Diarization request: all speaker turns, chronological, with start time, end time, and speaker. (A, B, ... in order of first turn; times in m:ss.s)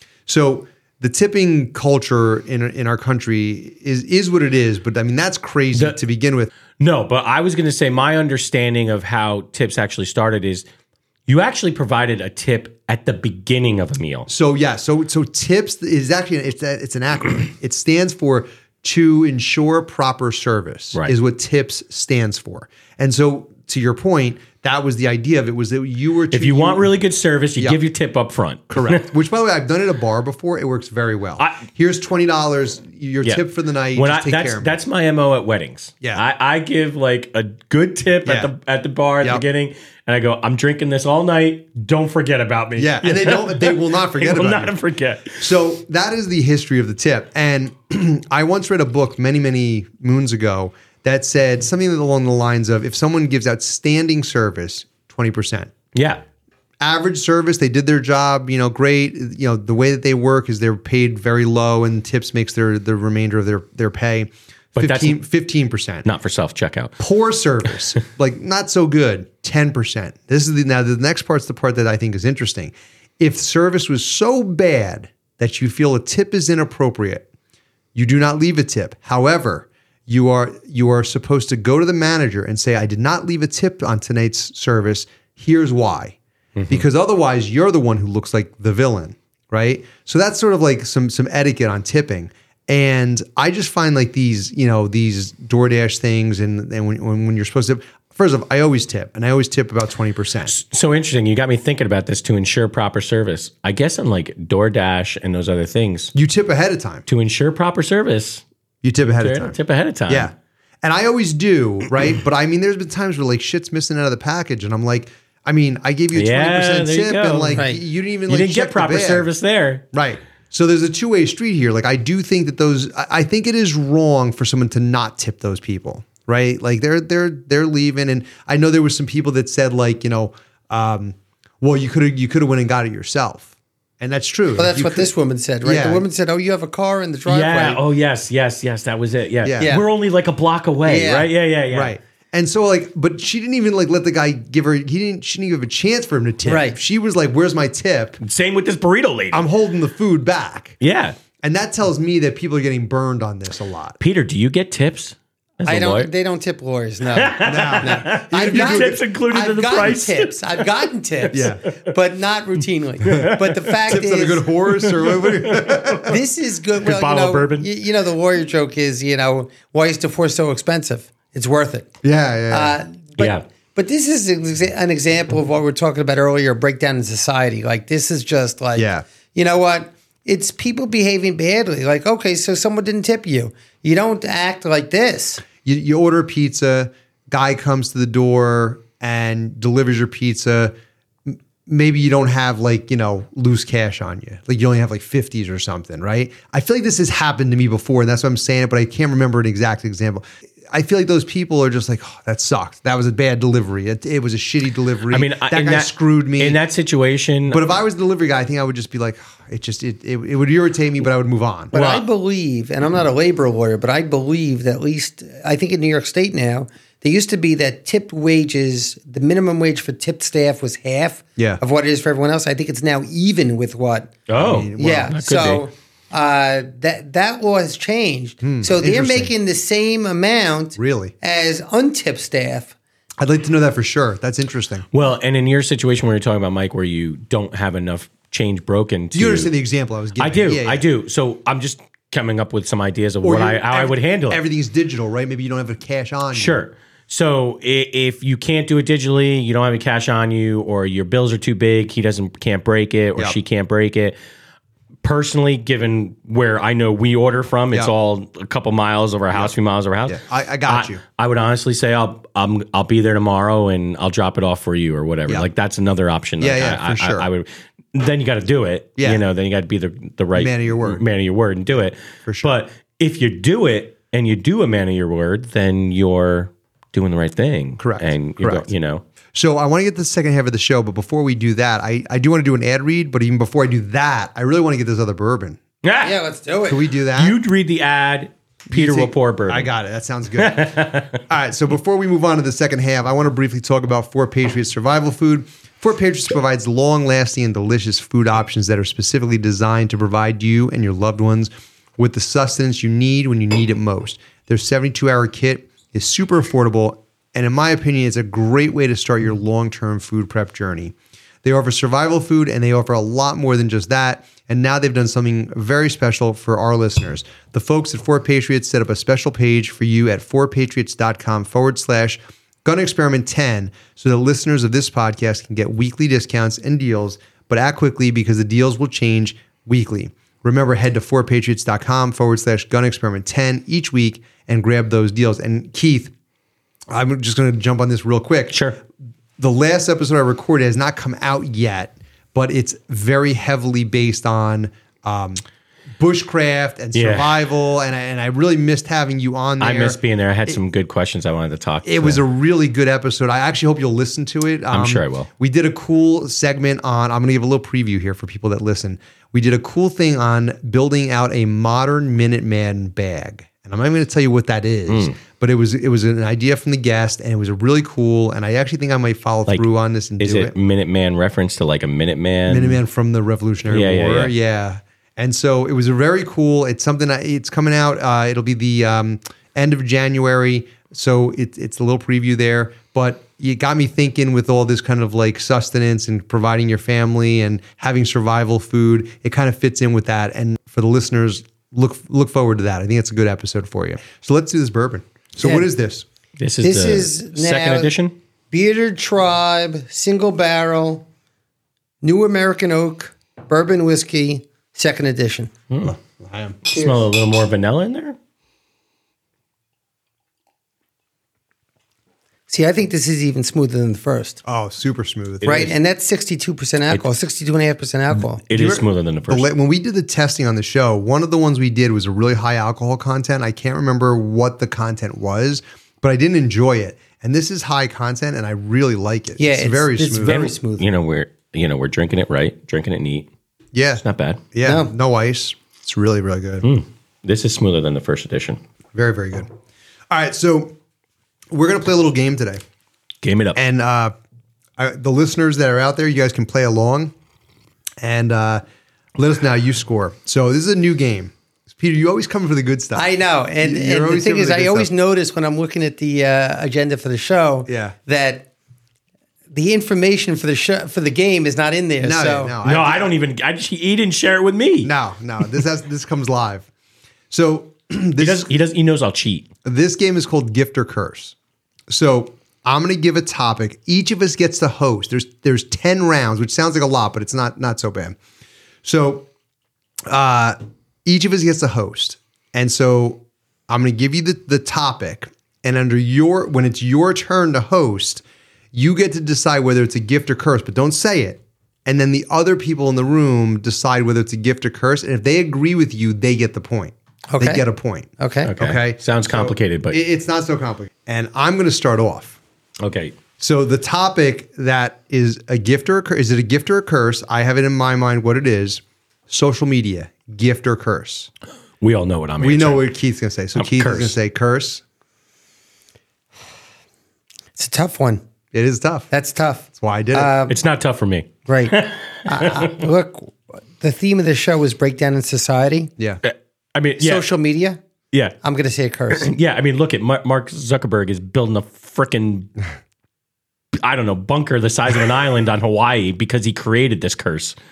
0:00.3-0:06.5 A
0:06.8-0:10.6 B
0:11.3-0:14.3 B
0:14.3-0:26.9 A
0:26.3-0:29.0 B
0:28.7-0:34.7 A
0:31.4-0:31.6 B
0:33.9-0:45.4 B
0:38.2-0:38.5 A
0:42.8-0:44.8 A
0:45.4-0:55.7 A
0:55.9-0:56.2 B
0:56.8-1:06.0 A
1:04.8-1:05.2 B
1:06.0-1:06.9 B
1:07.0-1:17.2 A
1:17.9-1:26.2 A
1:26.6-1:26.8 B
1:26.7-1:40.5 A
1:40.5-1:46.1 B
1:46.1-1:47.0 A
1:47.1-1:48.4 B
1:48.8-1:49.6 A
1:49.1-1:50.3 B
1:50.1-1:59.3 A
1:56.1-1:57.6 B
1:57.5-1:57.8 C
1:58.3-1:59.8 B
1:59.9-2:15.1 A
2:14.6-2:17.8 C
2:15.6-2:16.0 A
2:17.3-2:21.9 B
2:19.4-2:19.8 A
2:19.6-2:19.8 C
2:20.8-2:21.3 C
2:21.7-2:28.2 A
2:26.4-2:26.8 C
2:28.2-2:29.4 B
2:29.3-2:30.8 A
2:30.8-2:31.2 B
2:31.4-2:34.0 A
2:34.0-2:36.1 B
2:35.6-2:44.5 C
2:37.1-2:40.7 B
2:37.4-2:39.0 A
2:41.3-2:41.5 B
2:41.3-2:41.6 A
2:43.0-2:43.7 B
2:43.9-2:46.2 A
2:44.8-2:46.0 B
2:46.0-2:51.9 C
2:46.8-2:47.7 B
2:52.0-2:52.8 A
2:52.5-3:05.4 C
2:53.2-2:53.4 B
2:58.8-2:59.0 A
3:05.6-3:10.7 A
3:11.2-3:26.6 A
3:25.1-3:27.6 B
3:27.5-3:31.7 A
3:31.7-3:44.2 C
3:31.7-3:32.0 B
3:44.3-3:45.6 B
3:44.4-3:45.1 A
3:44.8-3:52.7 C
3:48.4-3:49.3 A
3:50.8-3:51.1 A
3:53.2-3:54.8 A
3:54.9-3:59.5 B
3:59.1-4:00.8 A
4:00.2-4:04.4 B
4:03.2-4:06.6 A
4:06.3-4:14.2 B
4:15.0-4:39.0 B
4:20.1-4:21.0 A
4:26.4-4:27.3 A
4:29.0-4:29.2 A
4:30.3-4:31.0 A
4:32.2-4:32.5 A
4:37.8-4:38.7 A
4:39.3-4:45.6 A
4:45.8-4:46.2 B
4:46.0-4:46.8 C
4:46.6-4:47.4 A
4:47.1-4:49.7 B
4:48.7-5:36.1 A
4:50.4-4:51.2 B
5:36.9-5:38.6 A
5:39.4-5:45.4 A
5:46.0-5:50.0 A
5:46.9-5:47.4 B
5:49.6-5:52.2 B
5:51.8-6:10.5 A
5:54.7-5:55.3 B
6:04.9-6:05.1 B
6:10.2-6:12.8 B
6:12.5-6:36.0 A
6:13.7-6:14.3 B
6:35.4-6:35.7 C
6:36.4-6:38.1 B
6:36.6-6:37.9 C
6:38.5-6:41.0 C
6:42.0-6:45.5 C
6:45.8-6:46.6 A
6:46.6-6:48.2 B
6:46.7-6:47.0 C
6:52.5-6:54.4 C
6:54.4-6:55.6 A
6:55.4-6:55.7 B
6:55.4-6:58.4 C
6:58.1-6:59.5 B
6:58.5-7:10.5 A
7:09.4-7:10.8 C
7:10.2-7:13.3 B
7:13.7-7:16.7 A
7:14.0-7:14.4 B
7:14.6-7:14.9 C
7:16.6-7:18.6 B
7:18.9-7:19.5 A
7:20.1-7:20.8 A
7:21.5-7:22.6 A
7:23.2-7:23.6 B
7:23.5-7:24.1 A
7:24.8-7:27.1 A
7:28.0-7:28.6 A
7:29.2-7:33.1 A
7:32.9-7:38.5 C
7:33.6-7:34.9 A
7:37.7-7:37.9 A
7:39.5-7:42.5 C
7:42.0-7:43.1 A
7:42.6-7:44.9 B
7:44.8-7:46.7 A
7:47.3-7:48.5 A
7:48.2-7:49.5 B
7:49.6-7:51.3 A
7:51.9-7:58.2 A
7:58.8-7:59.3 A
8:00.1-8:22.4 A
8:17.3-8:17.6 C
8:18.2-8:18.5 C
8:18.4-8:20.0 B
8:22.8-8:23.2 B
8:23.4-8:31.3 A
8:31.8-8:32.9 B
8:32.4-8:34.8 A
8:33.5-8:34.1 B
8:37.5-8:38.2 C
8:38.5-8:39.1 A
8:39.1-8:40.6 C
8:39.8-8:40.3 A
8:40.5-8:42.8 B
8:41.5-8:45.9 C
8:46.2-8:47.2 B
8:47.0-8:47.8 C
8:48.4-8:49.3 C
8:49.1-8:52.5 B
8:53.8-8:57.6 B